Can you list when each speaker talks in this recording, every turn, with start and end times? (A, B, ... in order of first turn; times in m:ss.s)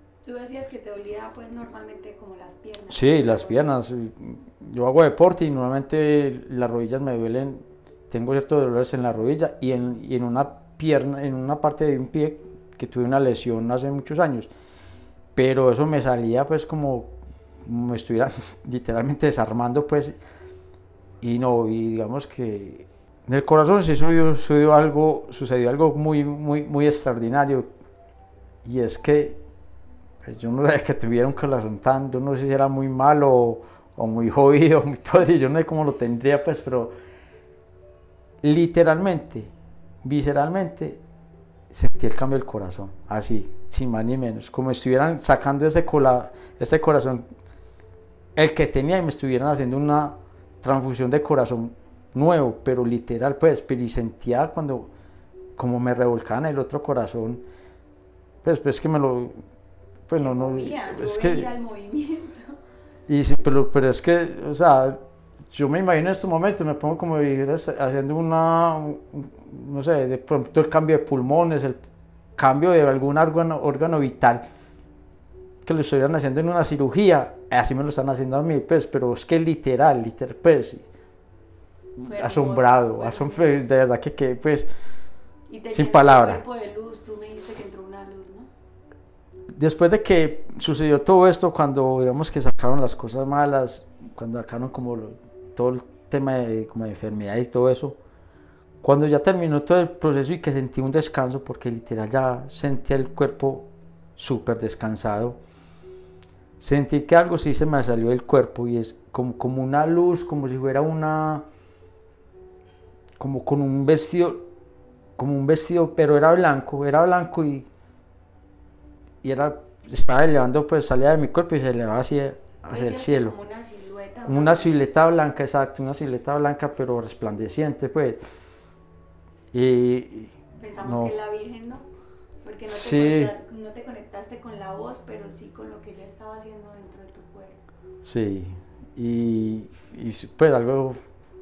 0:00.2-0:03.8 A
0:02.9-0:14.5 B
0:15.4-0:17.1 B
0:17.6-0:20.2 B
0:21.2-0:27.7 B
0:28.6-0:29.4 B
0:30.2-0:36.9 B
0:38.4-0:39.5 B
0:40.0-0:41.0 B
0:41.7-0:47.2 B
0:48.4-0:54.9 B
0:55.6-0:57.4 B
0:58.4-0:59.4 B
1:00.1-1:01.5 B
1:00.1-1:02.6 A
1:03.1-1:05.0 B
1:05.5-1:11.8 B
1:12.4-1:14.4 B
1:15.6-1:20.8 B
1:22.0-1:24.7 B
1:22.0-1:23.7 A
1:25.5-1:28.5 A
1:25.7-1:26.4 B
1:29.5-1:38.0 B
1:38.8-1:45.4 B
1:46.6-1:51.4 B
1:53.2-1:54.4 B
1:55.2-1:57.7 B
1:59.2-2:03.4 B
2:02.7-2:04.7 A
2:04.2-2:08.2 B
2:09.5-2:11.1 B
2:10.6-2:11.8 A
2:12.4-2:17.6 A
2:12.7-2:13.3 B
2:18.0-2:21.0 B